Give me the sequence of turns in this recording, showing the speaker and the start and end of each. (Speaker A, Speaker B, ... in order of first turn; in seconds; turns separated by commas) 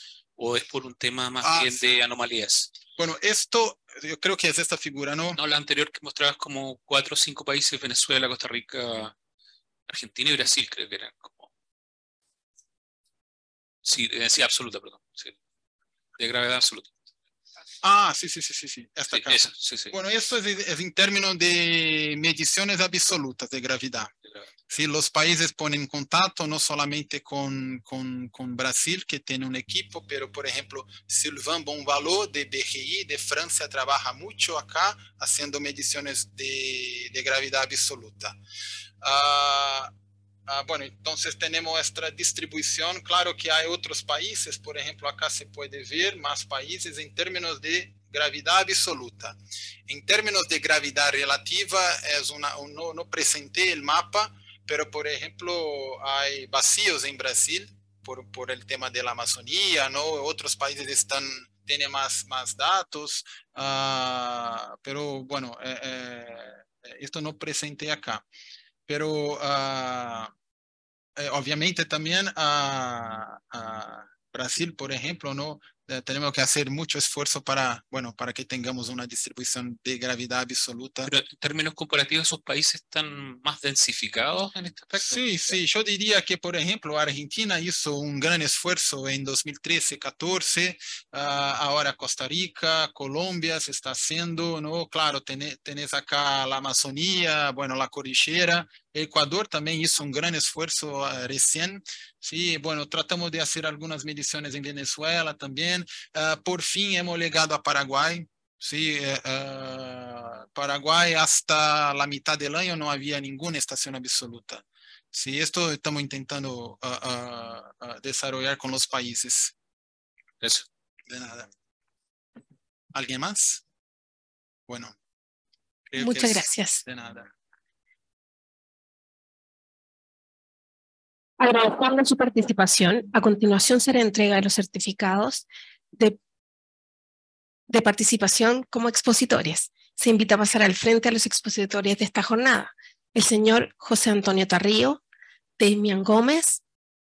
Speaker A: 0.4-2.7, Speaker B: 1.4-1.8, Speaker B: 3.0-5.4, Speaker A: 5.3-9.1, Speaker A: 9.9-11.5, Speaker A: 13.8-15.4, Speaker A: 16.2-16.9, Speaker B: 17.8-24.1, Speaker A: 19.1-20.0, Speaker B: 24.7-38.4, Speaker B: 39.0-39.9, Speaker B: 40.5-68.2, Speaker B: 68.9-70.3, Speaker B: 71.2-81.1, Speaker A: 81.0-85.5, Speaker B: 85.0-119.5, Speaker B: 121.1-121.5, Speaker B: 122.9-123.6, Speaker B: 124.7-124.9, Speaker B: 125.9-127.3, Speaker C: 126.0-126.8, Speaker C: 131.4-135.4, Speaker C: 137.7-145.0, Speaker C: 145.6-146.6